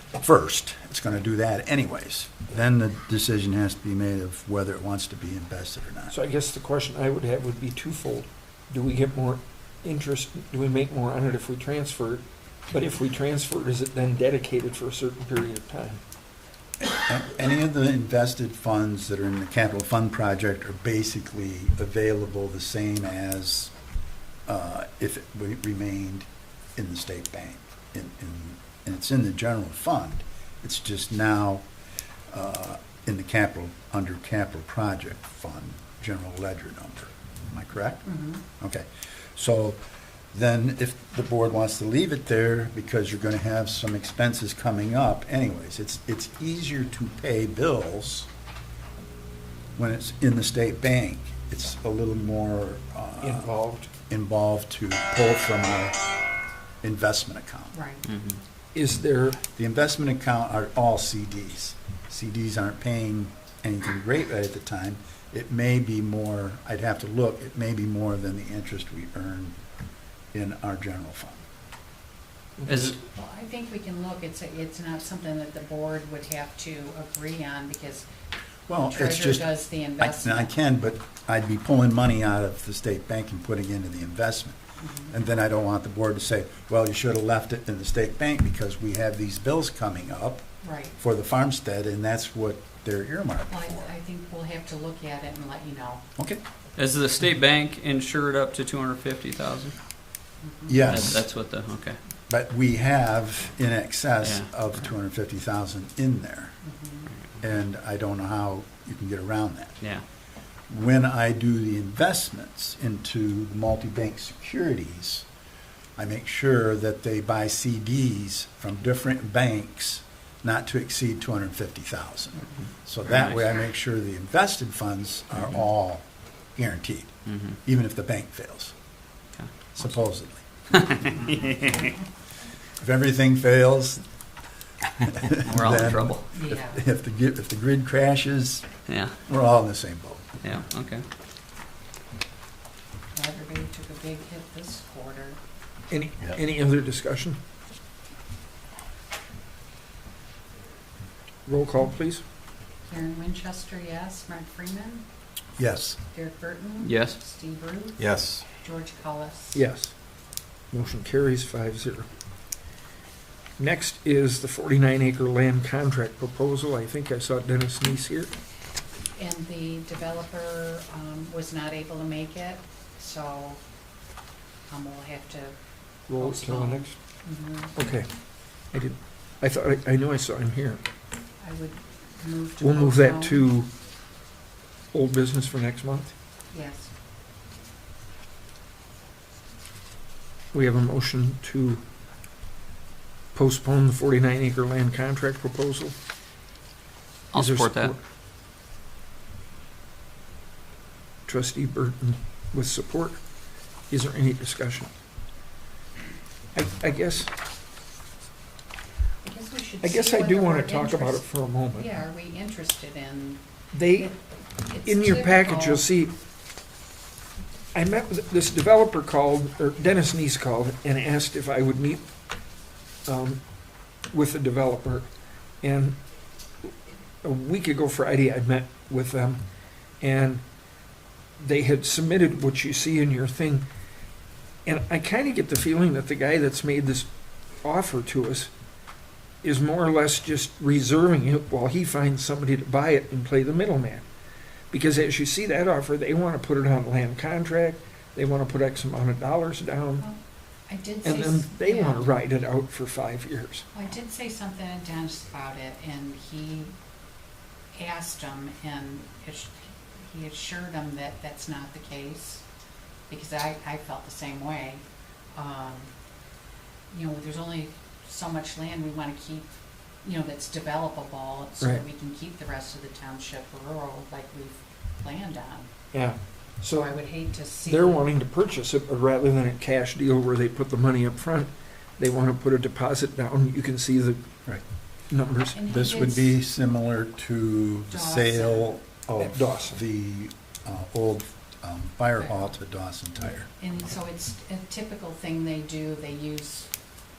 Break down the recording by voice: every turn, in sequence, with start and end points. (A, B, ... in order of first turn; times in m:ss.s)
0:00.1-0:06.1 A
0:06.1-0:16.0 B
0:16.8-0:23.7 A
0:24.5-0:31.6 A
0:32.3-0:38.0 A
0:38.0-0:38.4 C
0:38.6-0:39.8 A
0:40.3-0:48.3 A
0:49.8-0:53.5 A
0:53.2-0:53.9 B
0:54.1-0:56.0 A
0:56.8-0:57.7 A
0:57.7-0:58.1 C
0:58.0-0:58.4 D
0:58.7-0:59.4 B
0:59.5-1:09.6 A
1:10.3-1:11.4 A
1:12.7-1:13.0 D
1:12.8-1:18.1 C
1:18.7-1:19.5 A
1:18.8-1:20.5 C
1:20.0-1:24.6 A
1:24.8-1:25.2 C
1:25.1-1:30.4 A
1:30.6-1:31.0 C
1:31.0-1:33.9 A
1:33.5-1:36.0 C
1:36.8-1:39.8 D
1:40.4-1:41.0 C
1:40.7-1:41.2 A
1:40.9-1:42.0 D
1:42.3-1:46.6 A
1:44.2-1:44.8 D
1:46.6-1:47.1 C
1:47.1-1:47.4 D
1:47.4-1:49.8 A
1:50.7-1:55.2 A
1:56.0-2:06.0 A
2:03.1-2:03.4 D
2:06.6-2:08.7 A
2:07.2-2:07.6 D
2:09.7-2:10.4 A
2:10.7-2:11.9 D
2:12.8-2:14.0 A
2:15.0-2:18.6 A
2:15.4-2:16.2 D
2:16.3-2:16.8 C
2:18.9-2:19.2 D
2:19.2-2:20.2 A
2:20.4-2:21.0 D
2:23.1-2:25.4 C
2:25.9-2:27.4 B
2:31.4-2:32.2 B
2:32.8-2:35.0 C
2:35.6-2:36.0 A
2:36.1-2:39.6 C
2:36.8-2:37.2 D
2:38.0-2:38.4 A
2:39.5-2:39.9 B
2:40.7-2:42.1 B
2:43.6-2:48.3 B
2:49.2-2:53.6 C
2:54.7-2:55.5 C
2:56.1-2:57.0 B
2:56.1-2:57.7 C
2:57.7-2:58.1 B
2:58.7-3:00.8 B
3:01.4-3:03.5 C
3:02.6-3:03.7 B
3:04.9-3:06.1 B
3:06.5-3:06.9 C
3:10.5-3:11.8 B
3:13.3-3:15.9 B
3:17.3-3:17.9 D
3:17.3-3:18.0 B
3:21.3-3:23.2 B
3:23.9-3:24.9 B
3:26.5-3:27.3 B
3:29.2-3:35.9 C
3:29.8-3:31.9 B
3:33.7-3:34.1 B
3:34.8-3:36.1 B
3:37.7-3:42.0 B
3:43.0-3:43.4 B
3:44.1-3:45.1 B
3:45.6-3:46.0 B
3:47.2-3:49.4 B
3:50.0-3:50.4 B
3:51.4-3:53.6 B
3:54.6-3:57.1 B
3:57.6-3:58.5 B
3:59.4-4:04.0 B
4:04.7-4:10.0 B
4:10.0-4:12.1 C
4:11.0-4:13.6 B
4:13.7-4:16.7 C
4:17.7-4:22.4 C
4:23.1-4:24.8 C
4:25.3-4:25.9 C
4:26.9-4:29.5 C
4:30.0-4:35.7 C
4:35.9-4:36.9 B
4:36.7-4:38.1 C
4:37.6-4:44.2 B
4:45.1-4:45.6 B
4:45.4-4:46.3 C
4:45.6-4:53.5 A
4:47.9-4:48.8 C
4:49.2-4:49.8 B
4:52.2-4:52.5 C
4:53.6-4:56.7 C